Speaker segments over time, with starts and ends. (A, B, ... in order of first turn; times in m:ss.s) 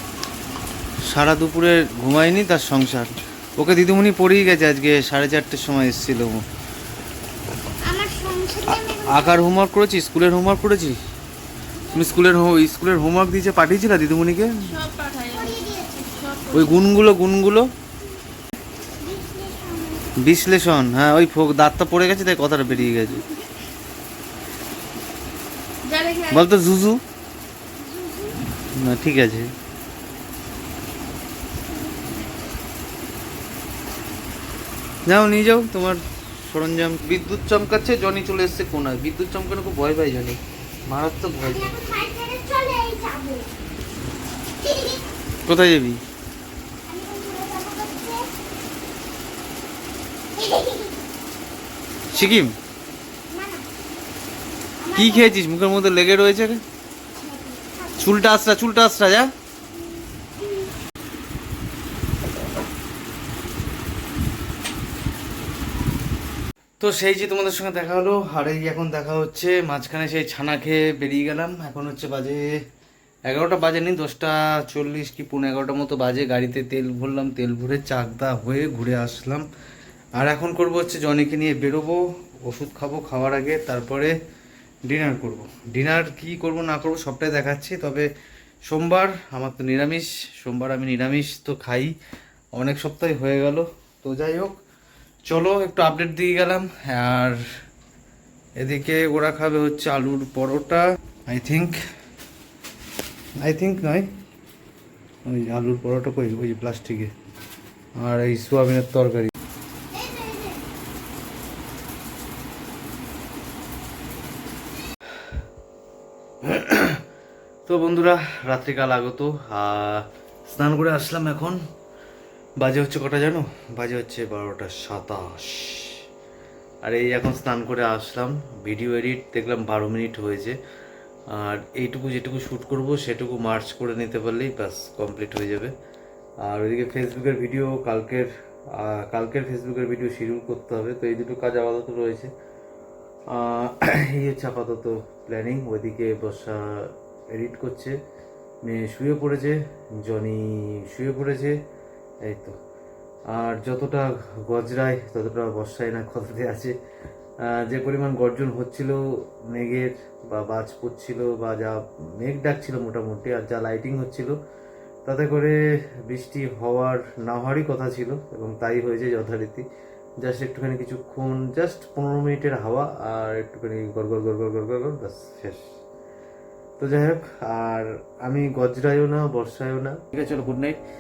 0:01.1-0:06.4 A
0:07.8-0:09.5 B
0:08.7-0:11.0 A
0:11.7-0:12.3 B
0:11.9-0:14.6 A
0:14.6-0:16.9 C
0:15.3-0:16.1 B
0:16.5-0:17.7 A
0:19.0-0:20.2 B
0:20.2-0:23.2 A
0:25.8-0:26.5 C
0:26.3-0:27.0 A
0:27.8-0:28.5 B
0:28.8-0:29.5 A
0:31.8-0:32.1 B
0:35.1-0:41.8 A
0:41.5-0:43.5 B
0:44.6-0:45.1 B
0:45.5-0:46.0 A
0:46.9-0:48.4 B
0:50.4-0:51.1 B
0:52.1-0:52.5 B
0:52.1-0:52.6 A
0:53.3-0:53.7 B
0:54.8-0:55.4 B
0:55.0-0:56.6 A
0:57.6-0:58.2 B
0:58.0-0:59.3 A
1:00.4-1:00.7 B
1:06.8-1:12.4 A
1:13.3-1:19.5 A
1:20.2-1:24.2 A
1:24.9-1:28.1 A
1:28.7-1:31.9 A
1:32.6-1:34.5 A
1:35.3-1:37.4 A
1:38.6-1:41.8 A
1:43.4-1:44.1 A
1:45.2-1:47.1 A
1:48.0-1:49.3 A
1:49.9-1:50.6 B
1:56.4-1:57.0 A
1:57.7-2:01.6 A
2:02.6-2:06.0 A
2:06.8-2:10.6 A
2:11.3-2:15.7 A
2:16.4-2:22.3 A
2:23.3-2:28.0 A
2:28.6-2:31.6 A
2:32.2-2:32.6 A
2:33.3-2:36.8 A
2:37.4-2:44.4 A
2:45.0-2:49.7 A
2:50.2-2:55.6 A
2:56.8-3:00.8 A